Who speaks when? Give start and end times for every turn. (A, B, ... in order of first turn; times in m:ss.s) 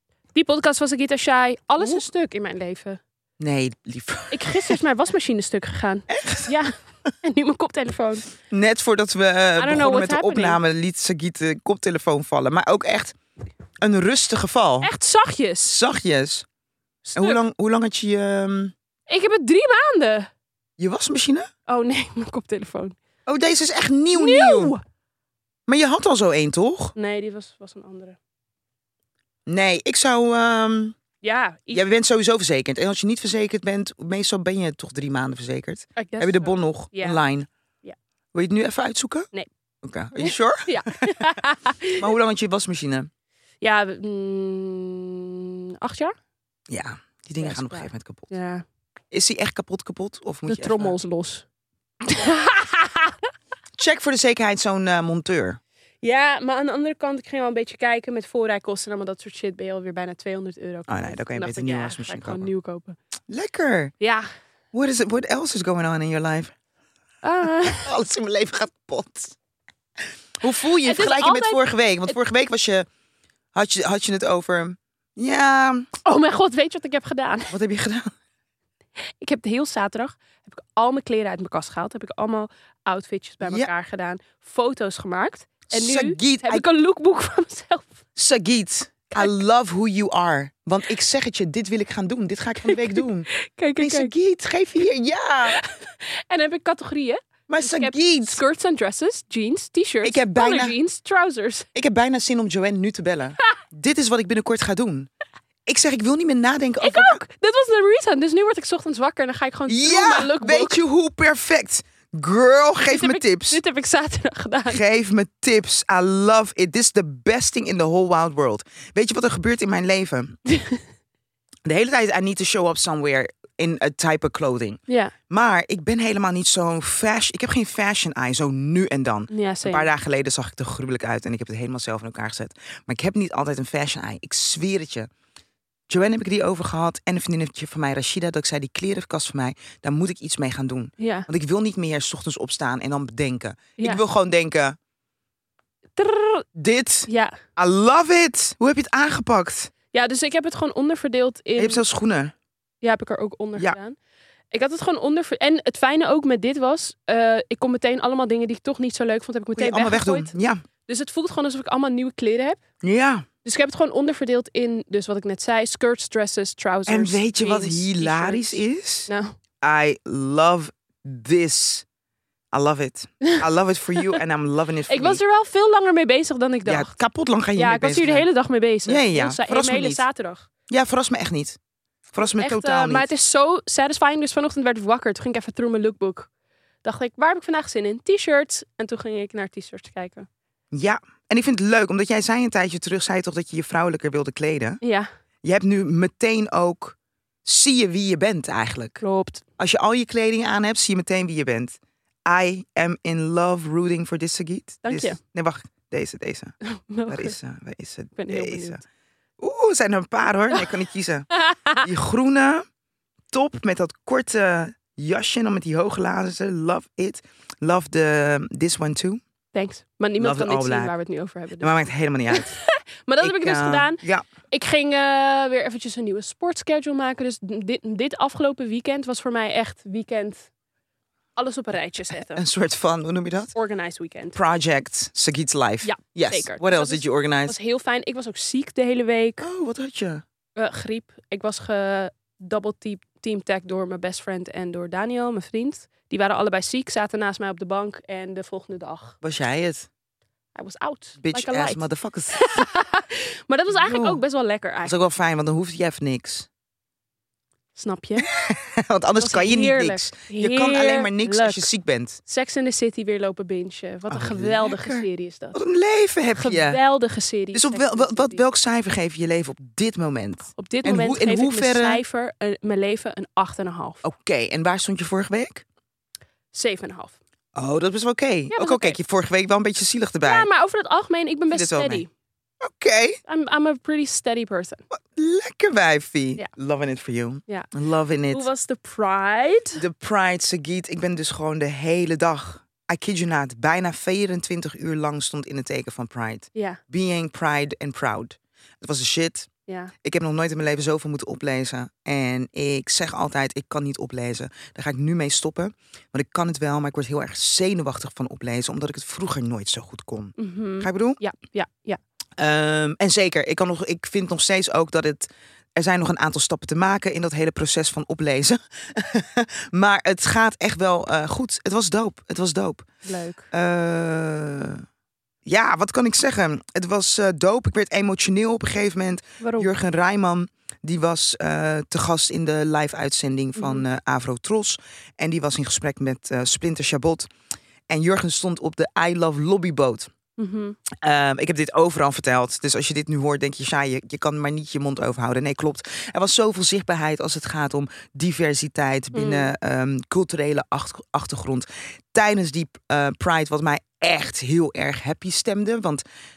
0:00.3-0:03.0 A
0:03.4-0:04.8 B
0:04.3-0:08.2 A
0:06.1-0:06.5 B
0:08.5-0:13.2 B
0:09.6-0:10.6 A
0:13.8-0:14.9 B
0:14.8-0:15.8 A
0:15.6-0:16.4 B
0:17.0-0:17.4 A
0:17.2-0:18.7 B
0:19.1-0:20.3 A
0:20.8-0:21.5 B
0:21.7-0:23.0 A
0:23.2-0:24.7 B
0:24.1-0:24.8 A
0:25.7-0:26.9 B
0:27.0-0:28.2 A
0:29.5-0:31.0 B
0:31.2-0:31.8 A
0:31.7-0:37.5 B
0:36.0-0:37.2 A
0:38.3-0:39.3 B
0:39.8-0:41.4 B
0:40.2-0:42.1 A
0:42.0-0:43.1 B
0:43.6-0:46.1 A
0:46.7-0:48.3 B
0:47.4-0:48.6 A
0:49.1-0:51.0 B
0:50.5-0:51.4 A
0:52.0-0:53.2 A
0:53.8-0:55.6 B
0:56.0-1:03.0 A
1:00.9-1:02.5 B
1:03.3-1:03.9 B
1:04.0-1:04.3 A
1:04.7-1:06.5 B
1:07.2-1:07.9 A
1:07.6-1:09.4 B
1:10.4-1:12.9 B
1:10.8-1:12.1 A
1:13.5-1:15.9 B
1:16.0-1:17.5 A
1:17.5-1:18.1 B
1:19.0-1:28.0 A
1:23.4-1:23.7 B
1:25.7-1:26.6 B
1:28.2-1:35.6 B
1:29.1-1:29.4 A
1:32.6-1:34.1 A
1:35.4-1:41.7 A
1:37.5-1:38.4 B
1:40.0-1:40.8 B
1:41.7-1:45.1 B
1:45.6-1:47.2 B
1:46.8-1:50.8 A
1:49.7-1:53.6 B
1:52.9-1:54.8 A
1:54.7-2:00.4 B
2:00.5-2:00.8 A
2:01.6-2:15.1 B
2:04.9-2:05.1 A
2:09.3-2:09.9 A
2:15.9-2:24.8 B
2:21.0-2:21.3 A
2:26.0-2:26.4 A
2:26.6-2:29.7 B
2:27.1-2:27.4 A
2:29.9-2:31.8 A
2:31.6-2:32.3 B
2:32.8-2:34.0 A
2:34.5-2:40.3 A
2:39.6-2:40.6 B
2:40.9-2:42.6 A
2:42.8-2:43.3 B
2:43.4-2:49.3 A
2:46.9-2:49.1 B
2:49.6-2:51.8 B
2:52.5-2:55.2 B
2:54.9-2:56.9 A
2:56.6-2:58.3 B
2:57.6-3:00.5 A
2:58.8-3:00.0 B
3:00.7-3:01.6 B
3:02.1-3:03.1 B
3:02.4-3:06.3 A
3:06.8-3:10.3 A
3:10.7-3:14.8 B
3:14.8-3:15.1 A
3:15.4-3:19.0 B
3:19.0-3:19.4 A
3:19.6-3:26.6 B
3:24.8-3:25.2 A
3:26.6-3:27.4 A
3:27.1-3:28.8 B
3:28.2-3:28.8 A
3:29.4-3:32.6 B
3:31.5-3:31.8 A
3:33.3-3:39.2 B
3:39.5-3:41.7 A
3:40.2-3:40.9 B
3:41.6-3:42.5 B
3:42.3-3:50.5 A
3:43.2-3:44.2 B
3:51.4-3:52.4 A
3:52.3-3:53.5 B
3:53.5-3:54.4 A
3:54.3-3:57.6 B
3:55.8-3:59.5 A
3:59.4-4:00.2 B
4:00.6-4:09.2 A
4:09.2-4:09.9 B
4:10.5-4:14.9 A
4:11.2-4:12.6 B
4:13.7-4:14.2 B
4:14.8-4:16.5 B
4:17.7-4:18.3 A
4:18.2-4:22.2 B
4:19.2-4:21.7 A
4:22.3-4:25.6 A
4:24.1-4:26.8 B
4:26.4-4:28.4 A
4:27.5-4:32.0 B
4:30.6-4:34.0 A
4:34.0-4:35.6 B
4:36.5-4:37.1 A
4:37.5-4:40.5 B
4:38.5-4:39.0 A
4:40.2-4:42.1 A
4:41.5-4:42.0 B
4:42.6-4:43.2 B
4:43.2-4:44.8 A
4:44.9-4:48.4 B
4:48.3-4:49.8 A
4:49.7-4:59.5 B
4:56.5-4:56.8 A
4:59.7-4:59.9 A
5:00.0-5:11.2 B
5:10.4-5:12.0 A
5:12.4-5:22.9 B
5:23.0-5:23.4 A
5:23.5-5:24.8 B
5:25.4-5:37.3 B
5:29.4-5:29.7 A
5:33.6-5:33.8 A
5:37.9-5:40.1 B
5:40.4-5:40.8 A
5:41.0-5:56.0 B
5:49.1-5:49.5 A